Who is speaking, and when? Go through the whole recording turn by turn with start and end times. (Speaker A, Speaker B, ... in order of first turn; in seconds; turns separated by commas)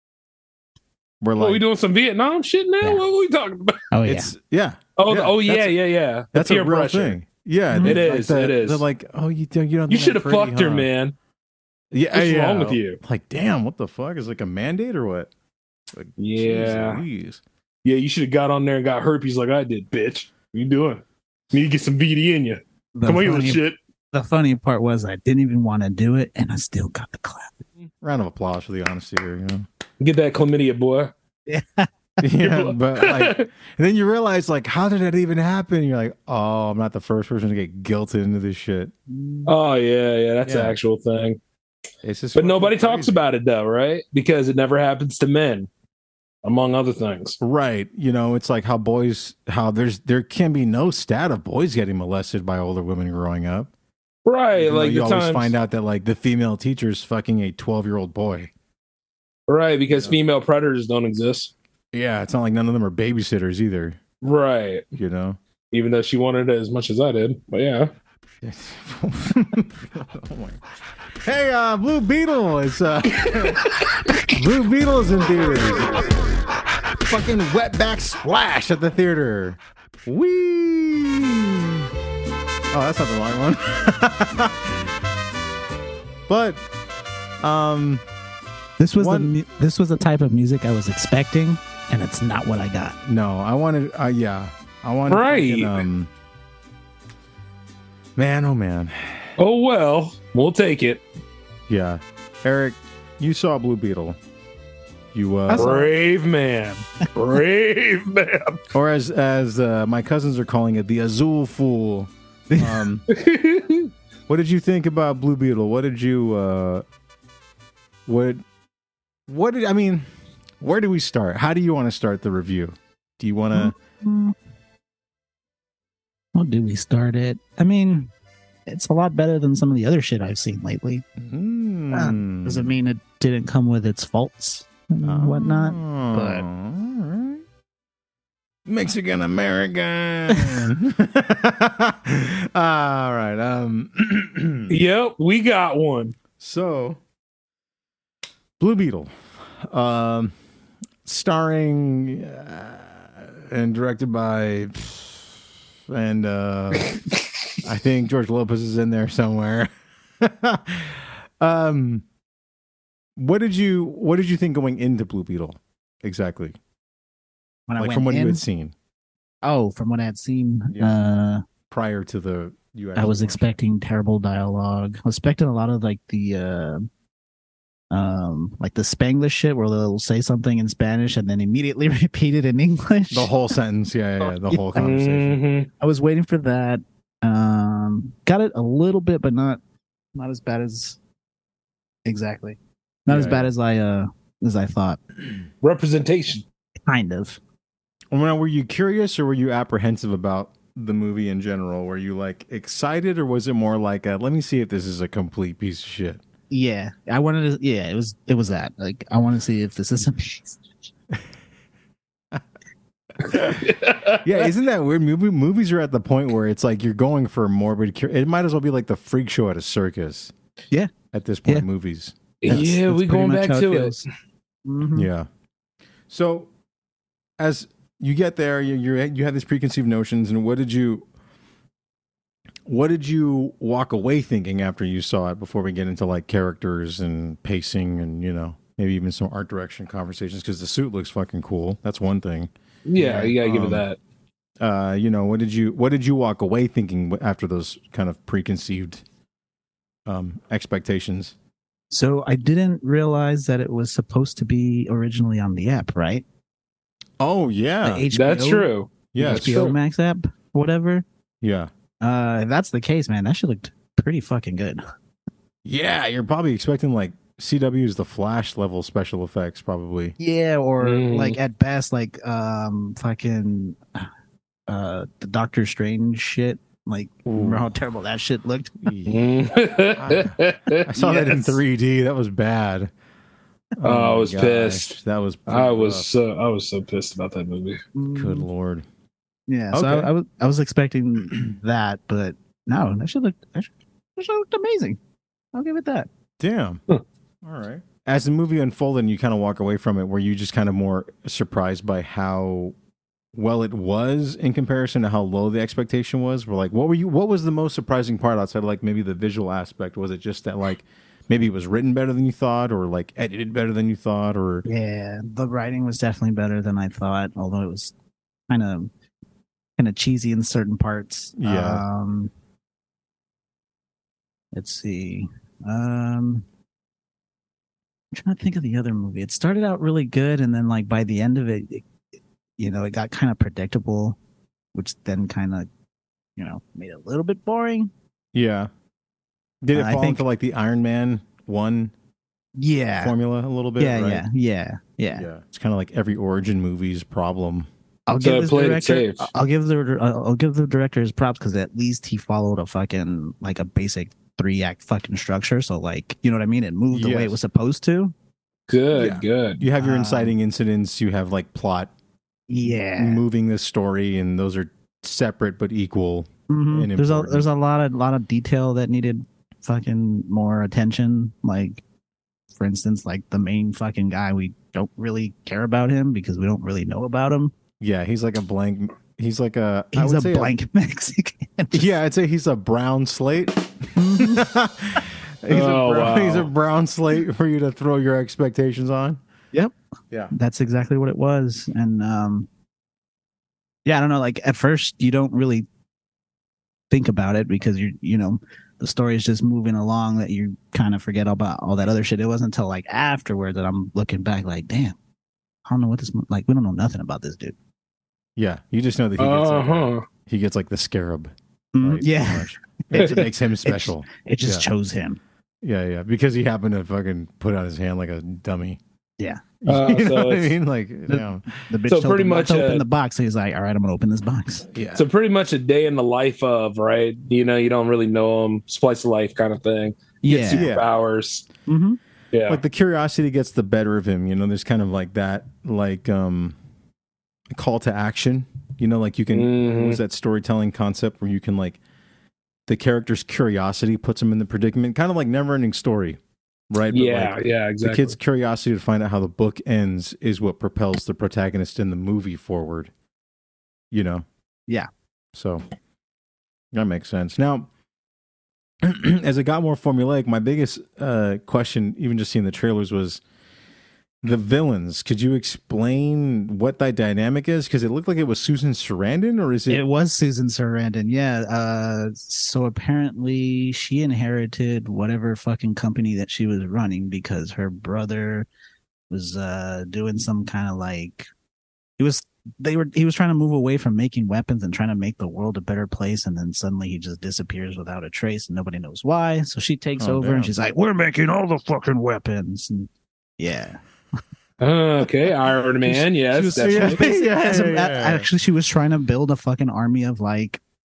Speaker A: 1.2-1.6, Speaker B: 1.4-3.8, Speaker C: 3.9-4.3, Speaker A: 4.0-5.8, Speaker B: 5.0-7.2, Speaker A: 6.3-10.9, Speaker C: 7.7-8.0, Speaker B: 7.8-8.8, Speaker B: 9.9-11.1, Speaker A: 11.9-15.3, Speaker B: 12.1-13.0, Speaker A: 15.9-17.4, Speaker B: 16.2-17.0, Speaker B: 17.8-23.8, Speaker C: 22.9-27.6, Speaker A: 28.0-29.6, Speaker B: 30.0-31.1, Speaker C: 31.5-31.9, Speaker A: 32.2-38.9, Speaker B: 32.4-33.5, Speaker C: 39.1-39.5, Speaker B: 39.5-41.4, Speaker A: 40.4-40.7, Speaker A: 42.0-43.3, Speaker B: 42.3-45.7, Speaker B: 46.4-47.4, Speaker A: 47.4-53.7, Speaker B: 54.2-55.5, Speaker A: 54.5-58.5, Speaker B: 59.5-61.5, Speaker A: 59.9-60.2, Speaker A: 61.9-64.0, Speaker B: 64.2-64.8, Speaker A: 65.0-65.4, Speaker B: 65.7-67.9, Speaker A: 68.4-70.6, Speaker A: 71.2-73.7, Speaker A: 74.3-76.0, Speaker A: 77.0-81.9, Speaker A: 82.7-84.8, Speaker A: 86.3-86.6, Speaker A: 87.4-88.0, Speaker C: 88.8-93.0, Speaker A: 89.0-89.3, Speaker A: 93.0-96.1, Speaker B: 95.1-95.8, Speaker A: 98.2-99.3, Speaker B: 99.4-101.0, Speaker A: 101.7-104.2, Speaker A: 105.1-105.8, Speaker C: 105.5-105.9, Speaker B: 105.5-108.6, Speaker A: 108.7-113.1, Speaker C: 112.5-112.8, Speaker B: 113.1-113.9, Speaker A: 114.3-116.8, Speaker A: 118.1-118.4, Speaker A: 119.3-120.1, Speaker A: 120.6-123.7, Speaker C: 123.5-124.3, Speaker C: 126.3-128.1, Speaker C: 128.7-131.0, Speaker A: 131.2-132.7, Speaker C: 131.9-136.4, Speaker A: 135.0-137.4, Speaker A: 138.7-144.8, Speaker C: 140.3-140.6, Speaker B: 144.7-146.1, Speaker A: 146.4-147.0, Speaker A: 148.6-150.3, Speaker A: 151.0-157.0, Speaker A: 157.6-159.7, Speaker A: 160.2-162.0, Speaker A: 163.2-166.6, Speaker C: 167.7-168.4, Speaker A: 167.8-168.7, Speaker C: 169.4-171.4, Speaker A: 170.7-171.0, Speaker A: 171.7-173.6, Speaker C: 172.9-176.8, Speaker C: 177.9-183.3, Speaker A: 183.1-185.4, Speaker C: 184.5-184.9, Speaker B: 184.8-185.7, Speaker C: 185.8-189.6, Speaker C: 190.1-191.0, Speaker C: 192.1-195.0, Speaker A: 193.1-193.5, Speaker B: 195.6-196.4, Speaker C: 196.9-197.4, Speaker A: 198.1-206.2, Speaker C: 206.5-210.6, Speaker A: 213.3-213.6, Speaker B: 213.6-214.4, Speaker A: 214.2-220.3, Speaker A: 221.1-222.6, Speaker B: 222.4-224.0, Speaker C: 222.5-224.0, Speaker C: 224.6-225.1, Speaker A: 224.9-225.3, Speaker A: 226.1-226.5, Speaker A: 227.4-231.0, Speaker A: 232.7-242.5, Speaker B: 242.8-244.0, Speaker C: 243.0-243.3, Speaker A: 243.0-243.8, Speaker A: 244.6-249.0, Speaker A: 250.1-251.3, Speaker C: 251.9-256.2, Speaker A: 257.2-258.0, Speaker C: 257.8-261.0, Speaker B: 258.1-259.8, Speaker A: 259.1-259.6, Speaker A: 261.4-261.7, Speaker C: 262.0-264.8, Speaker A: 265.6-270.1, Speaker C: 270.2-274.0, Speaker B: 270.8-271.4, Speaker C: 274.7-278.8, Speaker A: 277.2-277.7, Speaker A: 278.8-279.2, Speaker B: 279.1-281.6, Speaker A: 279.9-282.9, Speaker A: 283.8-286.1, Speaker B: 283.8-284.9, Speaker B: 285.5-287.8, Speaker C: 287.9-288.5, Speaker A: 288.1-288.8, Speaker C: 289.5-295.0, Speaker A: 289.7-290.1, Speaker C: 295.5-296.1, Speaker A: 296.4-296.8, Speaker A: 297.4-302.7, Speaker A: 303.3-314.6, Speaker C: 314.6-317.9, Speaker C: 318.5-318.9, Speaker C: 319.8-322.3, Speaker A: 321.4-321.8, Speaker C: 324.5-326.4, Speaker C: 328.1-331.8, Speaker C: 332.6-334.2, Speaker C: 334.7-335.7, Speaker C: 336.4-337.9, Speaker A: 338.3-338.7, Speaker A: 339.6-341.9, Speaker C: 339.7-340.2, Speaker C: 342.6-343.1, Speaker A: 343.0-344.2, Speaker C: 343.8-345.3, Speaker A: 345.1-347.7, Speaker C: 348.1-358.1, Speaker B: 348.2-349.3, Speaker A: 356.9-357.4, Speaker B: 358.7-359.6, Speaker A: 358.9-361.9, Speaker C: 359.8-360.3, Speaker C: 362.5-363.2, Speaker A: 363.0-367.4, Speaker C: 366.5-371.8, Speaker C: 372.6-377.5, Speaker A: 377.8-380.5, Speaker C: 379.9-381.9, Speaker A: 381.7-389.2, Speaker C: 383.9-384.5, Speaker B: 385.5-386.5, Speaker C: 390.3-392.5, Speaker C: 393.8-395.6, Speaker C: 396.9-404.9, Speaker C: 405.6-407.5, Speaker A: 408.4-414.7, Speaker B: 409.2-410.1, Speaker C: 411.7-415.2, Speaker A: 415.6-418.8, Speaker A: 419.6-421.7, Speaker B: 419.7-420.5, Speaker C: 421.1-424.7, Speaker B: 421.9-422.8, Speaker A: 424.7-425.0, Speaker B: 424.9-431.4, Speaker C: 430.2-430.6, Speaker A: 430.5-430.9, Speaker C: 431.7-432.0, Speaker B: 432.3-432.6, Speaker A: 432.5-436.6, Speaker A: 437.5-441.8, Speaker B: 439.3-440.0, Speaker A: 442.7-446.2, Speaker A: 446.7-452.9, Speaker B: 446.9-448.2, Speaker A: 453.9-454.2, Speaker A: 455.3-455.6, Speaker A: 456.7-457.7, Speaker A: 458.8-463.2, Speaker A: 464.2-469.8, Speaker C: 469.7-478.5, Speaker C: 479.1-481.3, Speaker C: 482.0-493.8, Speaker A: 490.0-490.5, Speaker B: 494.6-497.0, Speaker C: 495.9-500.6, Speaker A: 496.6-498.3